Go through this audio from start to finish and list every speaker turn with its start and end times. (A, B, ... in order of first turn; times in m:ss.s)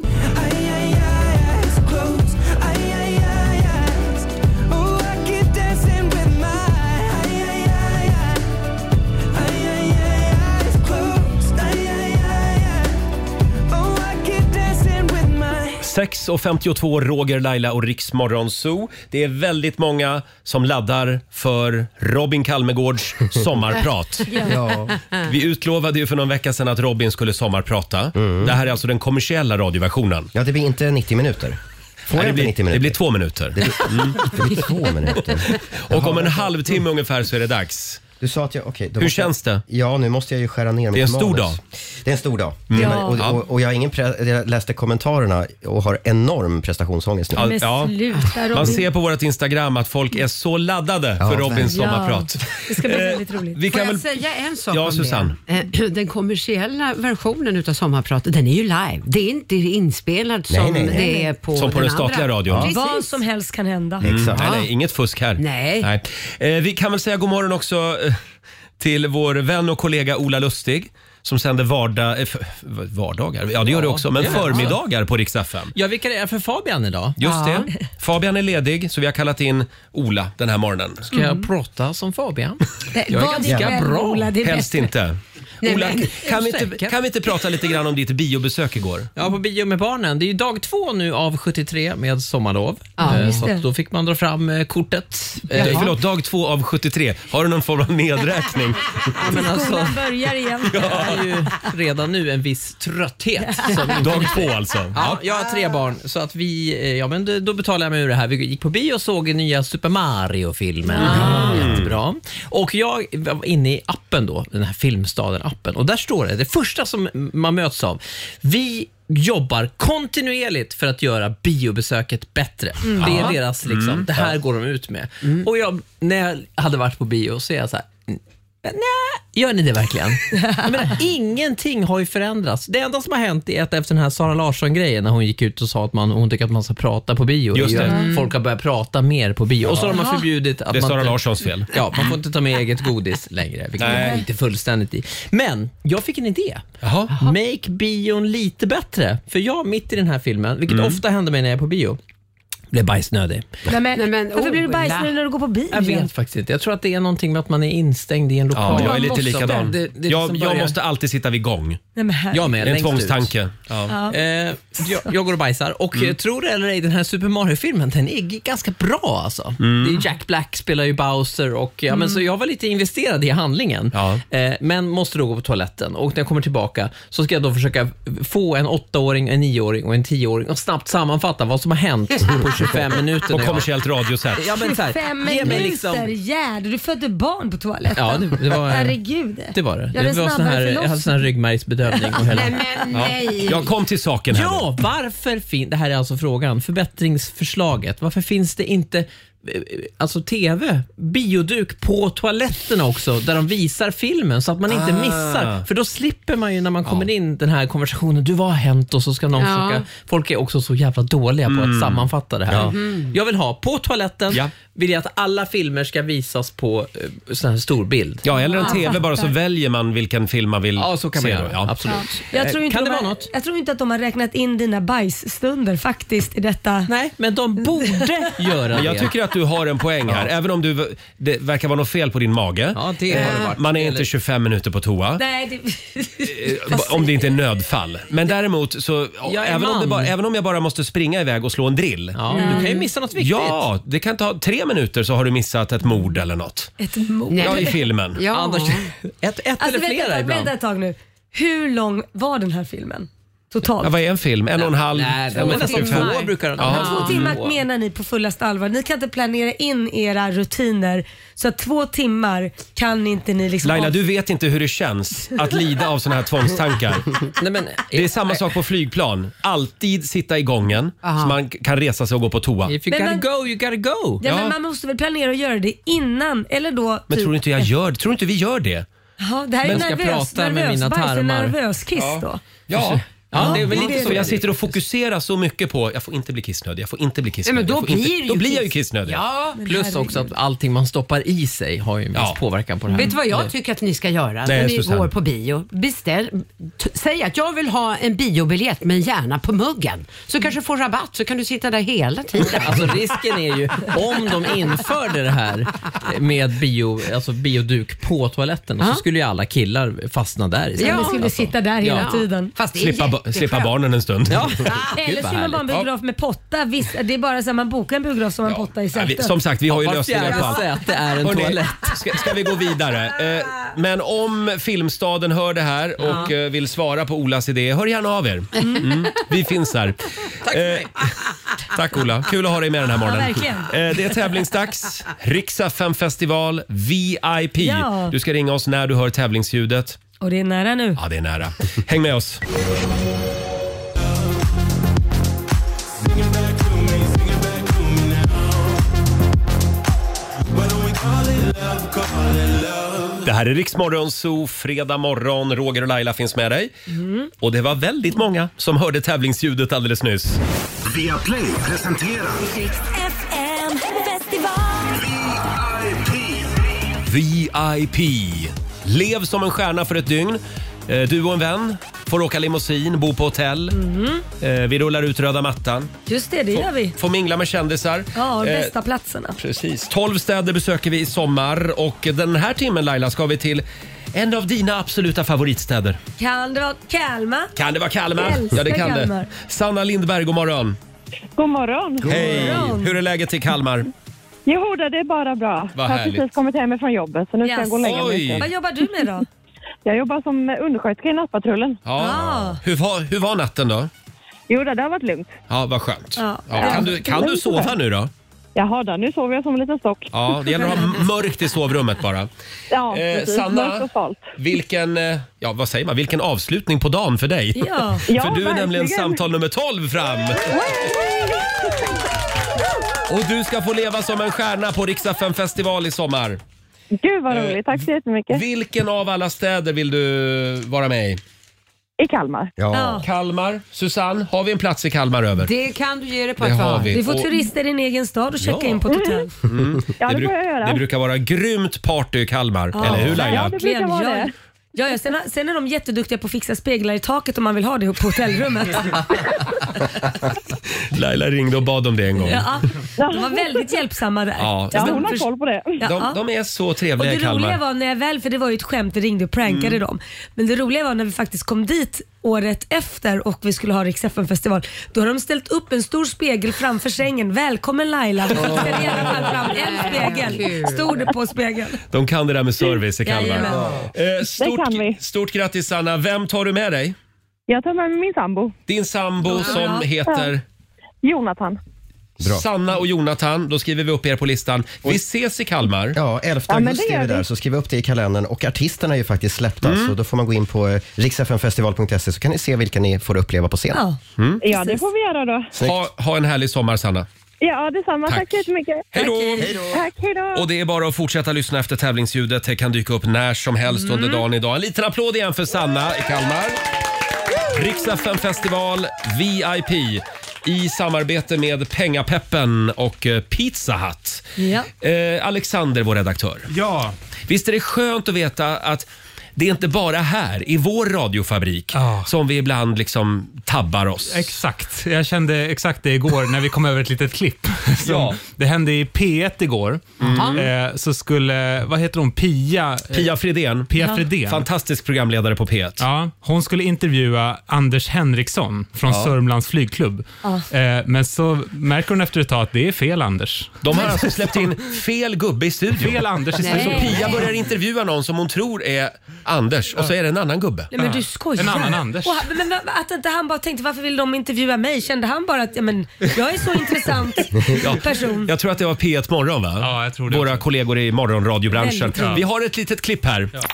0:00.3-0:08.4 A
0:09.3-0:12.9 A
0:13.7-0:15.8 A
0:15.8-0:24.3 B
0:24.3-0:24.6 C
0:24.4-0:25.0 D
0:25.2-0:30.3 B
0:28.2-0:28.5 D
0:30.3-0:31.6 D
0:32.1-0:33.0 D
0:32.1-0:34.3 B
0:33.6-0:36.5 D
0:35.5-0:38.1 B
0:38.2-0:47.5 D
0:39.0-0:39.6 B
0:40.9-0:41.6 B
0:42.7-0:43.4 B
0:42.7-0:43.2 C
0:47.4-0:54.1 B
0:47.4-0:48.9 C
0:51.2-0:51.8 D
0:51.7-0:53.6 C
0:53.7-1:03.2 E
0:54.7-0:55.4 B
1:00.5-1:01.1 D
1:00.9-1:01.3 C
1:01.5-1:02.7 B
1:02.6-1:04.1 C
1:04.0-1:04.6 D
1:04.0-1:08.2 B
1:04.4-1:04.7 E
1:05.4-1:05.9 E
1:08.8-1:15.7 B
1:13.6-1:14.8 F
1:15.7-1:17.2 F
1:17.2-1:21.1 B
1:17.2-1:17.7 E
1:21.1-1:24.3 F
1:21.1-1:21.5 C
1:22.9-1:24.9 C
1:23.4-1:23.8 B
1:24.4-1:29.1 B
1:25.6-1:26.8 E
1:29.2-1:35.9 F
1:33.0-1:33.4 E
1:33.1-1:33.6 C
1:35.5-1:39.2 B
1:35.6-1:35.9 E
1:39.2-1:40.1 F
1:39.2-1:41.1 C
1:40.7-2:32.0 F
1:40.7-1:41.2 B
1:43.4-1:43.7 C
1:43.9-1:45.2 B
1:51.0-1:52.0 B
2:03.0-2:04.3 B
2:10.3-2:10.9 C
2:17.5-2:18.1 B
2:17.8-2:18.1 C
2:17.9-2:18.2 E
2:19.6-2:20.0 B
2:19.9-2:20.2 C
2:20.7-2:22.2 B
2:23.8-2:24.2 B
2:23.9-2:24.2 C
2:26.8-2:27.2 B
2:30.7-2:31.0 B
2:32.7-2:33.5 F
2:33.7-2:36.1 C
2:33.9-2:35.1 E
2:35.7-2:40.8 F
2:38.5-2:41.8 B
2:38.7-2:39.7 C
2:42.0-2:42.5 C
2:42.3-2:43.3 F
2:42.6-2:44.0 B
2:43.9-2:44.2 C
2:44.1-3:03.7 F
2:49.6-2:50.0 B
2:51.9-2:52.2 C
2:53.9-2:54.2 B
3:03.3-3:04.4 B
3:04.4-3:06.1 F
3:04.5-3:11.3 C
3:08.0-3:09.0 F
3:09.5-3:12.6 F
3:12.2-3:13.7 E
3:12.9-3:14.7 B
3:14.3-3:38.3 F
3:24.7-3:25.6 B
3:29.4-3:29.8 E
3:31.4-3:32.7 B
3:32.5-3:33.1 E
3:38.2-3:41.7 B
3:38.4-3:39.3 C
3:40.8-3:43.3 F
3:41.9-3:46.9 C
3:46.9-3:49.1 F
3:48.7-3:55.2 B
3:52.7-3:54.1 F
3:53.2-3:53.4 E
3:55.2-3:57.3 C
3:56.3-4:02.6 B
3:59.2-4:00.1 F
4:02.1-4:03.6 F
4:02.3-4:02.8 C
4:03.1-4:06.7 B
4:06.8-4:07.8 C
4:07.3-4:08.9 E
4:07.4-4:08.2 B
4:08.3-4:10.5 F
4:09.6-4:13.9 C
4:13.8-4:17.3 B
4:14.6-4:17.6 F
4:15.4-4:16.3 E
4:16.6-4:24.0 C
4:23.6-4:27.2 B
4:27.4-4:28.6 F
4:27.9-4:32.7 B
4:31.0-4:31.4 E
4:32.7-4:34.2 F
4:32.9-4:33.2 C
4:34.2-4:37.7 C
4:34.2-4:34.6 B
4:37.1-4:38.9 B
4:39.2-4:42.4 C
4:39.6-4:41.6 F
4:42.0-4:49.2 B
4:42.7-4:44.8 F
4:43.3-4:44.3 C
4:47.4-4:49.6 E
4:49.6-4:50.3 C
4:49.6-4:53.5 F
4:52.9-5:03.0 E
4:54.4-4:55.1 B
5:02.4-5:12.1 F
5:10.8-5:13.7 E
5:10.8-5:12.5 C
5:12.7-5:14.5 B
5:14.3-5:15.8 F
5:14.9-5:19.3 C
5:18.4-5:30.9 B
5:19.7-5:22.2 F
5:26.0-5:26.2 F
5:30.4-5:30.9 F
5:31.7-5:40.0 B
5:33.0-5:33.8 C
5:37.6-5:38.1 C
5:40.2-5:41.0 C
5:41.0-5:42.4 B
5:46.9-5:47.4 G
5:50.8-5:53.1 G
5:53.2-5:56.7 B
5:56.9-5:57.3 C
5:57.4-6:00.4 B
6:00.9-6:02.4 G
6:02.4-6:05.0 A
6:05.0-6:06.5 G
6:07.0-6:13.7 B
6:13.7-6:14.2 C
6:14.4-6:15.9 B
6:16.1-6:16.9 C
6:16.5-6:18.7 B
6:18.1-6:19.4 C
6:19.4-6:26.0 B
6:26.2-6:27.5 C
6:27.6-6:30.8 B
6:28.1-6:29.3 C
6:31.4-6:32.4 H
6:32.0-6:33.9 B
6:32.1-6:32.9 C
6:34.4-6:38.4 H
6:35.7-6:36.2 B
6:37.4-6:39.2 C
6:37.8-6:38.5 B
6:39.8-6:41.8 H
6:41.8-6:43.9 B
6:42.0-6:42.6 C
6:44.5-6:45.3 H
6:45.5-6:48.1 B
6:46.2-6:47.2 C
6:46.6-6:47.7 H
6:48.5-6:50.8 H
6:50.1-6:52.3 B
6:52.7-6:54.3 H
6:52.9-7:00.4 B
6:57.6-6:58.1 C
6:58.1-6:59.2 H
7:00.5-7:01.4 H
7:03.1-7:06.4 B
7:07.0-7:08.4 H
7:07.3-7:07.7 B
7:08.3-7:11.2 B
7:12.0-7:12.5 H
7:12.6-7:13.0 D
7:12.7-7:13.1 C
7:13.0-7:15.5 B
7:15.4-7:17.0 E
7:16.4-7:17.3 B
7:16.9-7:19.3 C
7:18.4-7:18.8 B
7:18.9-7:19.2 H
7:19.4-7:23.5 B
7:20.0-7:20.8 H
7:22.7-7:29.2 C
7:23.1-7:24.3 H
7:30.9-7:32.5 B
7:32.2-7:36.2 C
7:33.0-7:33.7 H
7:34.4-7:35.1 B
7:34.7-7:35.8 H
7:35.8-7:37.6 B
7:37.0-7:51.8 C
7:39.4-7:39.8 B
7:48.4-7:49.2 B
7:48.9-7:51.1 E
7:51.9-7:57.0 B
7:53.0-7:53.7 C
7:54.4-7:55.0 H
7:57.5-7:58.5 H
7:58.7-8:00.4 B
7:59.2-7:59.9 C
8:01.0-8:01.6 H
8:02.2-8:06.0 B
8:05.9-8:13.8 D
8:06.5-8:07.3 H
8:09.6-8:09.9 B
8:13.7-8:14.0 C
8:14.2-8:14.5 B
8:14.4-8:15.5 H
8:15.5-8:15.8 D
8:15.5-8:17.1 B
8:17.4-8:20.4 H
8:18.0-8:19.6 B
8:19.0-8:19.4 C
8:19.4-8:19.8 D
8:20.3-8:26.6 B
8:23.7-8:24.2 C
8:27.5-8:34.2 B
8:34.4-8:34.7 C
8:34.8-8:36.5 B
8:36.5-8:37.0 I
8:37.3-8:44.4 B
8:41.7-8:42.1 I
8:44.1-8:53.1 I
8:47.8-8:48.2 B
8:50.0-8:50.5 B
8:50.0-8:50.5 E
8:52.9-8:55.8 B
8:53.7-8:54.5 I
8:55.8-9:04.0 I
8:58.9-8:59.2 B
9:03.6-9:10.7 B
9:05.7-9:07.2 I
9:06.4-9:07.3 E
9:06.4-9:07.2 C
9:10.7-9:18.3 C
9:10.8-9:12.2 I
9:17.5-9:23.3 B
9:19.6-9:20.5 I
9:21.5-9:22.2 C
9:22.0-9:22.2 I